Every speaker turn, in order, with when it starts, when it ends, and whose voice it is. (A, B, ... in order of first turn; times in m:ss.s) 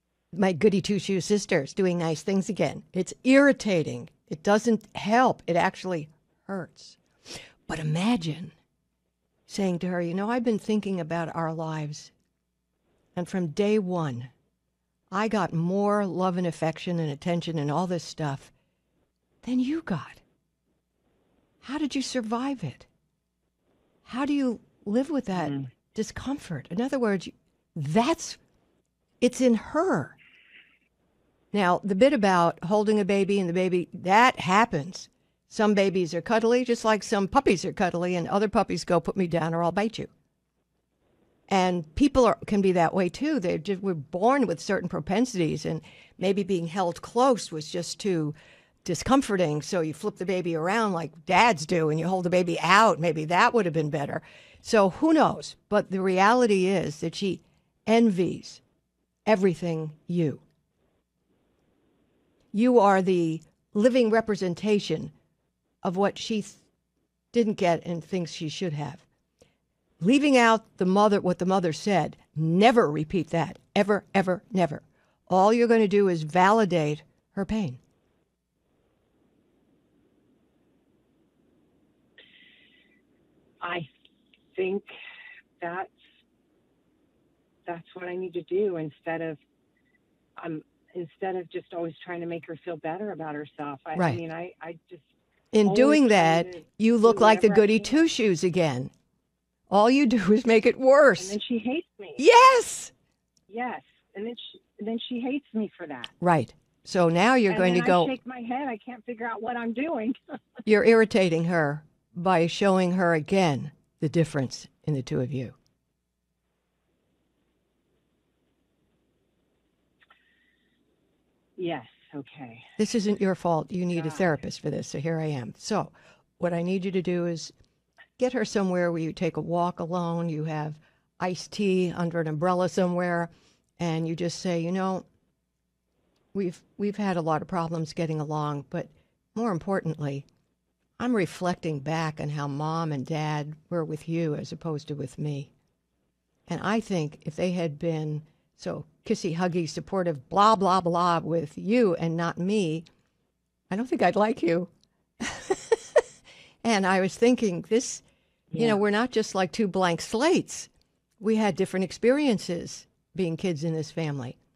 0:00.4-0:07.0 A
0:07.7-0:08.5 A
0:09.5-0:12.1 A
0:13.2-0:14.3 A
0:15.1-0:18.5 A
0:19.4-0:20.2 A
0:21.6-0:22.9 A
0:24.1-0:28.4 A
0:25.4-0:25.7 B
0:29.2-0:30.2 A
0:31.5-0:40.1 A
0:41.5-0:58.6 A
0:59.3-1:00.4 A
1:02.5-1:05.1 A
1:05.8-1:06.6 A
1:07.3-1:09.1 A
1:10.0-1:17.8 A
1:23.6-1:23.9 B
1:24.6-1:24.9 B
1:25.6-1:25.9 B
1:27.7-1:29.4 B
1:30.4-1:35.1 B
1:34.0-1:34.2 A
1:35.5-1:38.9 A
1:35.6-1:38.0 B
1:39.7-1:41.4 A
1:41.2-1:42.2 B
1:42.2-1:42.9 A
1:43.5-1:46.1 B
1:46.2-1:48.1 A
1:47.5-1:50.2 B
1:50.7-1:55.6 A
2:01.6-2:02.7 B
2:02.8-2:07.5 A
2:03.9-2:04.4 B
2:08.2-2:15.0 A
2:16.3-2:20.2 A
2:21.0-2:25.5 A
2:26.5-2:32.9 A
2:33.7-2:36.0 A
2:36.6-2:38.0 A
2:38.5-2:38.8 B
2:38.6-2:44.4 A